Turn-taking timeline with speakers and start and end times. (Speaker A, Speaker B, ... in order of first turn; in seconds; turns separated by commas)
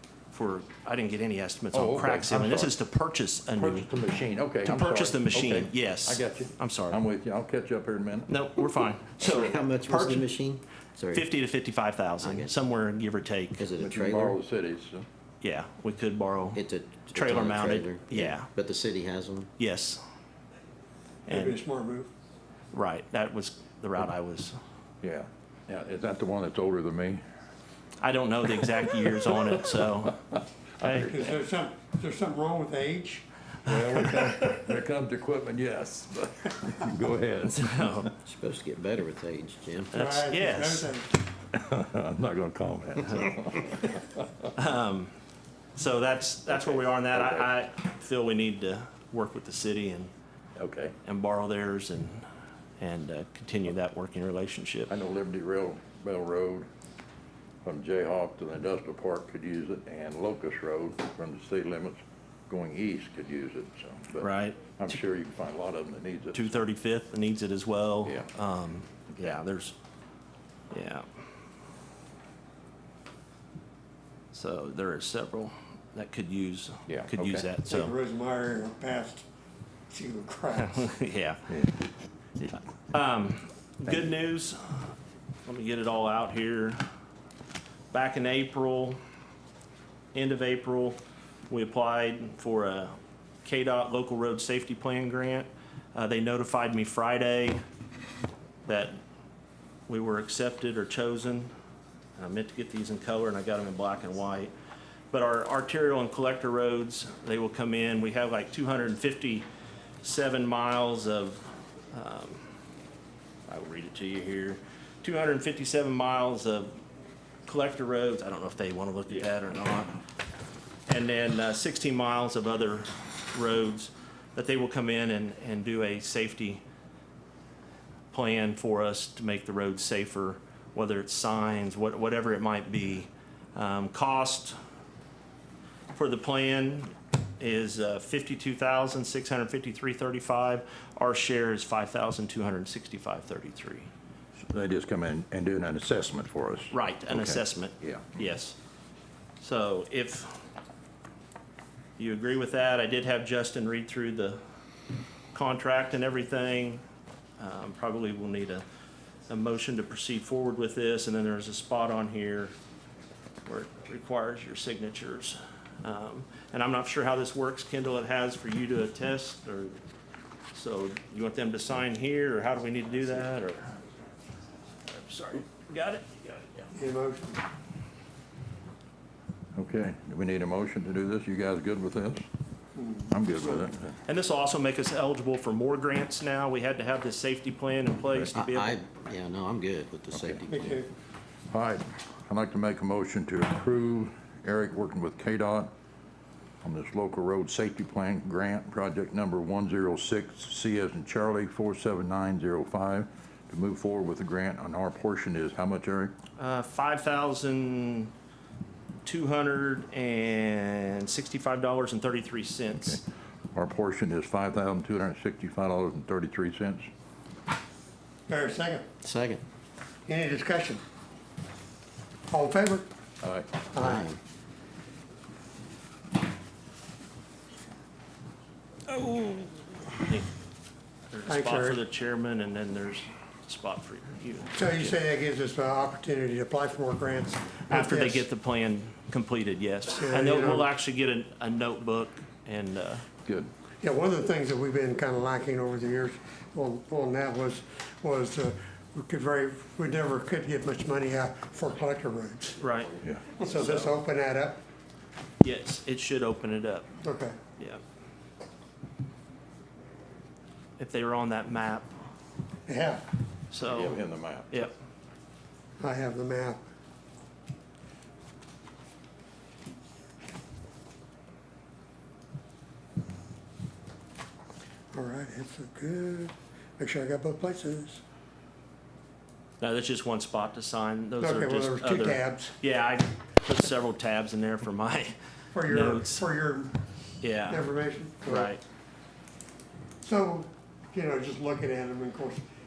Speaker A: 0.3-3.9, Speaker B: 1.7-2.7, Speaker B: 3.6-8.3, Speaker A: 4.6-7.0, Speaker A: 8.3-10.3, Speaker C: 9.2-11.3, Speaker A: 11.1-13.7, Speaker C: 12.2-12.5, Speaker C: 13.6-14.4, Speaker B: 13.8-15.1, Speaker A: 15.4-18.5, Speaker C: 16.5-19.5, Speaker A: 19.6-20.0, Speaker A: 21.3-21.6, Speaker D: 21.3-22.1, Speaker A: 22.7-24.5, Speaker B: 25.0-27.2, Speaker A: 28.0-30.2, Speaker A: 30.8-31.1, Speaker B: 30.8-31.3, Speaker D: 31.0-33.2, Speaker B: 33.6-38.1, Speaker A: 37.6-38.1, Speaker C: 38.2-39.9, Speaker D: 39.9-41.1, Speaker A: 39.9-40.9, Speaker B: 41.4-44.5, Speaker A: 44.5-45.1, Speaker A: 45.7-50.1, Speaker B: 46.5-47.5, Speaker B: 50.6-50.9, Speaker A: 51.0-52.2, Speaker A: 52.8-54.9, Speaker B: 54.9-56.7, Speaker B: 57.6-66.6, Speaker A: 64.2-64.7, Speaker A: 66.3-69.8, Speaker B: 69.1-69.4, Speaker A: 70.7-71.0, Speaker A: 74.3-77.9, Speaker B: 76.9-77.5, Speaker D: 77.7-79.2, Speaker D: 79.9-80.9, Speaker A: 80.6-81.6, Speaker A: 82.9-84.9, Speaker A: 85.5-86.8, Speaker A: 87.9-89.0, Speaker A: 90.1-91.0, Speaker A: 91.5-92.9, Speaker A: 93.4-97.6, Speaker A: 98.7-98.9, Speaker A: 99.9-101.5, Speaker A: 102.2-104.5, Speaker A: 105.1-109.4, Speaker A: 110.0-112.4, Speaker A: 113.5-116.7, Speaker A: 117.5-120.0, Speaker A: 120.9-126.6, Speaker A: 128.1-134.5, Speaker A: 135.9-143.9, Speaker B: 144.4-148.1, Speaker A: 146.7-148.6, Speaker A: 149.4-150.3, Speaker A: 152.0-154.4, Speaker A: 155.3-156.8, Speaker A: 157.4-158.6, Speaker A: 159.3-162.5, Speaker A: 163.4-169.7, Speaker A: 170.5-173.8, Speaker A: 174.9-176.4, Speaker D: 176.7-177.4, Speaker B: 179.6-182.2, Speaker D: 182.8-183.6, Speaker B: 183.1-184.0, Speaker A: 184.0-188.8, Speaker C: 188.3-190.8, Speaker B: 190.1-190.4, Speaker D: 190.5-190.9, Speaker B: 191.5-195.7, Speaker B: 196.6-206.1, Speaker A: 206.4-208.1, Speaker A: 209.0-213.0, Speaker B: 212.7-213.0, Speaker B: 213.5-216.9, Speaker D: 218.3-218.8, Speaker C: 219.0-219.4, Speaker D: 220.1-220.8, Speaker D: 222.3-222.9, Speaker B: 223.2-223.6, Speaker D: 223.7-224.1, Speaker C: 223.8-224.2, Speaker A: 228.9-230.3, Speaker A: 231.1-234.6, Speaker D: 231.2-231.8, Speaker D: 234.5-238.3, Speaker A: 237.7-243.1, Speaker D: 240.0-240.7, Speaker B: 243.2-243.5, Speaker D: 243.8-252.6, Speaker A: 252.6-253.9, Speaker B: 253.0-253.4, Speaker D: 253.3-254.6, Speaker A: 255.4-256.9, Speaker D: 257.0-257.4, Speaker A: 260.8-261.9, Speaker D: 262.6-263.0, Speaker A: 263.5-264.0, Speaker B: 263.7-264.7, Speaker D: 265.8-266.6, Speaker D: 274.9-278.0, Speaker A: 279.6-286.2, Speaker D: 281.2-282.5, Speaker D: 285.5-286.8, Speaker A: 287.2-287.7, Speaker D: 287.5-288.5, Speaker A: 288.2-288.6, Speaker D: 290.0-292.4